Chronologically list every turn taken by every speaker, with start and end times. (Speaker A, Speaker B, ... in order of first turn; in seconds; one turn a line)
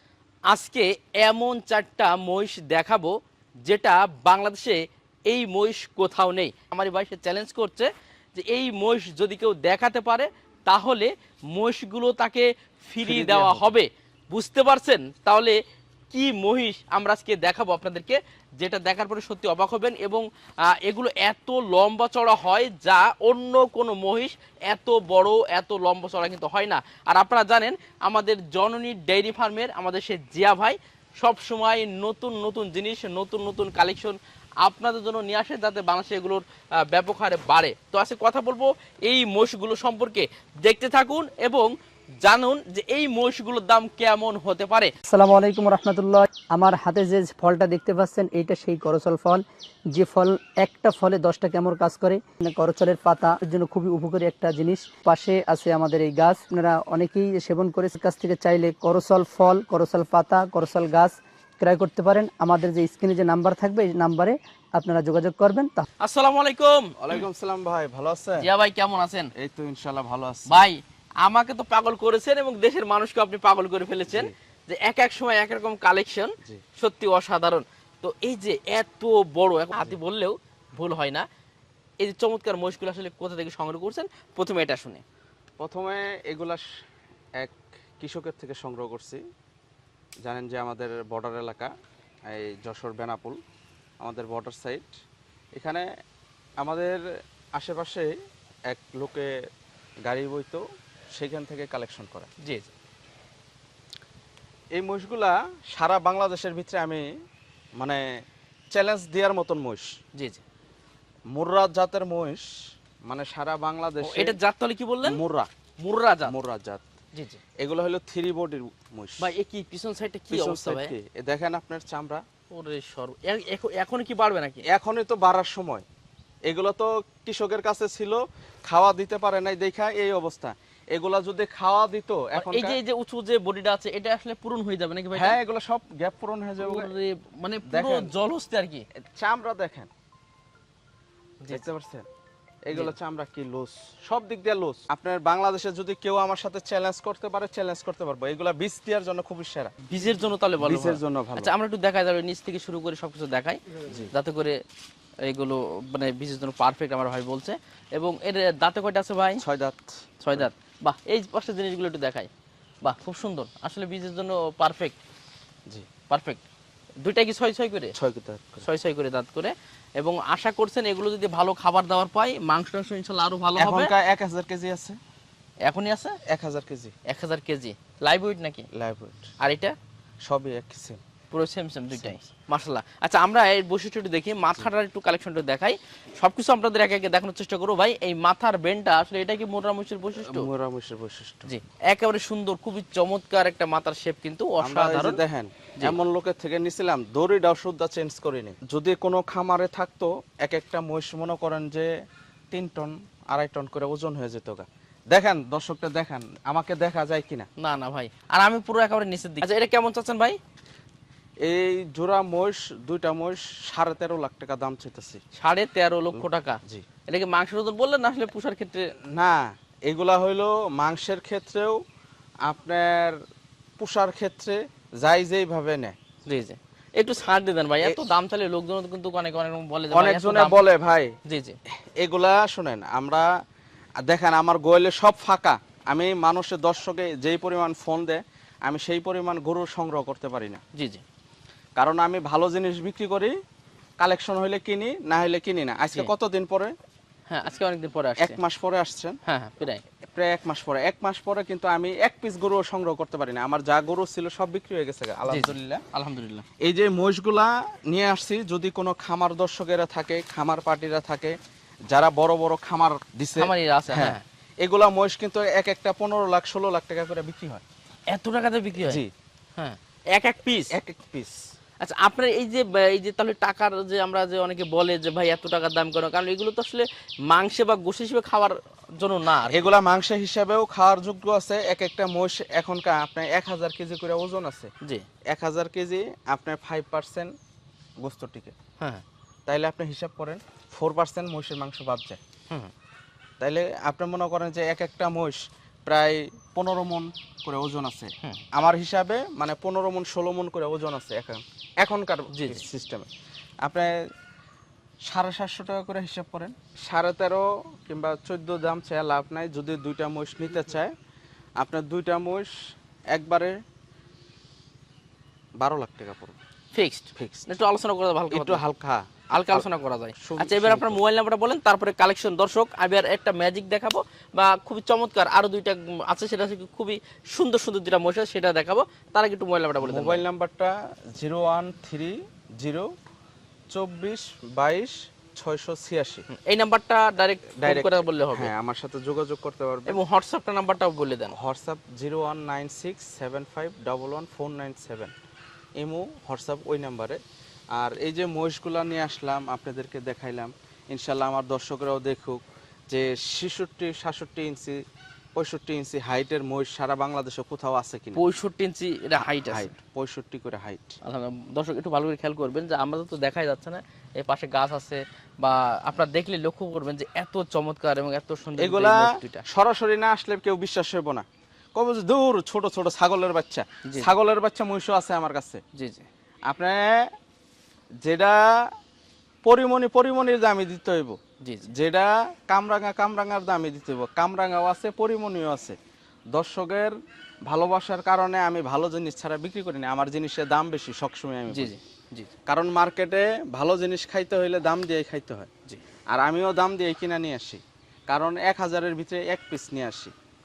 Speaker A: 0.5-3.1
Speaker A: 3.6-15.6
Speaker B: 13.0-13.8
Speaker A: 16.1-44.9
Speaker C: 45.1-65.8
Speaker A: 66.0-67.2
Speaker B: 67.0-68.5
Speaker A: 68.4-69.3
Speaker B: 69.3-70.7
Speaker A: 70.5-81.3
Speaker B: 74.1-74.3
Speaker A: 82.0-85.0
Speaker B: 85.6-86.6
Speaker B: 87.4-89.2
Speaker B: 90.2-91.7
Speaker B: 92.3-93.4
Speaker B: 94.0-95.0
Speaker B: 95.5-95.9
Speaker B: 96.6-98.1
Speaker B: 98.7-99.5
Speaker B: 100.0-102.3
Speaker A: 102.4-102.7
Speaker B: 104.7-107.1
Speaker B: 107.8-110.0
Speaker A: 110.1-110.4
Speaker B: 111.3-112.5
Speaker B: 113.0-114.4
Speaker A: 114.0-115.2
Speaker B: 115.0-115.5
Speaker A: 115.8-116.3
Speaker B: 116.2-116.8
Speaker A: 117.1-117.4
Speaker B: 117.6-119.3
Speaker A: 119.2-120.9
Speaker B: 120.3-122.2
Speaker A: 122.5-124.7
Speaker B: 124.7-125.8
Speaker B: 126.4-132.8
Speaker A: 132.3-135.4
Speaker B: 135.1-136.9
Speaker A: 136.6-138.8
Speaker B: 137.7-138.1
Speaker B: 138.9-139.9
Speaker A: 141.4-141.7
Speaker B: 141.5-142.1
Speaker B: 142.6-149.7
Speaker A: 149.9-154.6
Speaker B: 150.6-151.5
Speaker B: 153.9-154.1
Speaker A: 155.2-159.4
Speaker B: 159.4-160.5
Speaker A: 160.2-162.3
Speaker A: 162.8-164.9
Speaker A: 166.1-166.4
Speaker A: 167.0-167.9
Speaker B: 167.9-168.7
Speaker A: 168.6-173.9
Speaker B: 173.6-175.0
Speaker A: 175.6-176.2
Speaker B: 176.2-176.9
Speaker A: 177.1-178.7
Speaker B: 178.7-179.3
Speaker A: 179.4-179.7
Speaker B: 180.2-181.0
Speaker A: 181.3-190.5
Speaker B: 181.9-182.2
Speaker B: 190.3-191.5
Speaker A: 191.4-195.2
Speaker B: 194.6-201.9
Speaker B: 202.5-207.5
Speaker A: 207.6-210.4
Speaker B: 211.4-215.2
Speaker A: 215.3-218.9
Speaker B: 216.1-216.9
Speaker B: 219.1-221.8
Speaker B: 222.4-223.2
Speaker B: 223.8-226.0
Speaker A: 226.2-230.6
Speaker B: 229.9-231.2
Speaker A: 231.2-231.6
Speaker B: 231.7-233.3
Speaker B: 234.0-240.6
Speaker A: 240.7-241.0
Speaker B: 241.8-243.3
Speaker B: 244.0-246.7
Speaker A: 245.8-246.1
Speaker A: 247.3-248.4
Speaker B: 248.2-249.2
Speaker A: 249.2-249.8
Speaker B: 250.0-255.8
Speaker A: 255.3-256.4
Speaker B: 256.6-267.6
Speaker A: 263.4-264.2
Speaker A: 268.1-269.0
Speaker B: 268.8-269.1
Speaker A: 269.6-270.7
Speaker B: 270.7-271.4
Speaker A: 271.8-279.7
Speaker B: 279.5-284.7
Speaker B: 285.3-287.3
Speaker B: 288.0-288.5
Speaker A: 288.8-289.0
Speaker B: 289.4-292.2
Speaker B: 293.4-303.1
Speaker A: 302.3-302.6
Speaker B: 303.6-304.1
Speaker B: 305.0-310.9
Speaker B: 311.6-312.5
Speaker B: 313.1-313.6
Speaker B: 315.6-316.4
Speaker A: 316.7-318.6
Speaker B: 317.1-317.5
Speaker B: 318.3-321.0
Speaker A: 319.3-330.2
Speaker B: 329.8-332.9
Speaker B: 333.7-336.2
Speaker A: 336.3-338.5
Speaker B: 337.6-340.0
Speaker A: 339.9-341.3
Speaker B: 341.3-345.1
Speaker B: 345.8-347.2
Speaker B: 347.7-354.8
Speaker B: 355.4-358.2
Speaker A: 358.1-359.7
Speaker B: 359.2-361.0
Speaker A: 361.0-369.4
Speaker B: 368.6-375.6
Speaker A: 373.8-374.1
Speaker A: 375.7-376.1
Speaker B: 376.4-377.1
Speaker B: 378.0-378.7
Speaker B: 379.4-381.2
Speaker A: 381.4-381.7
Speaker B: 381.7-385.8
Speaker B: 386.3-391.7
Speaker A: 391.5-392.3
Speaker B: 392.5-395.5
Speaker B: 396.1-400.1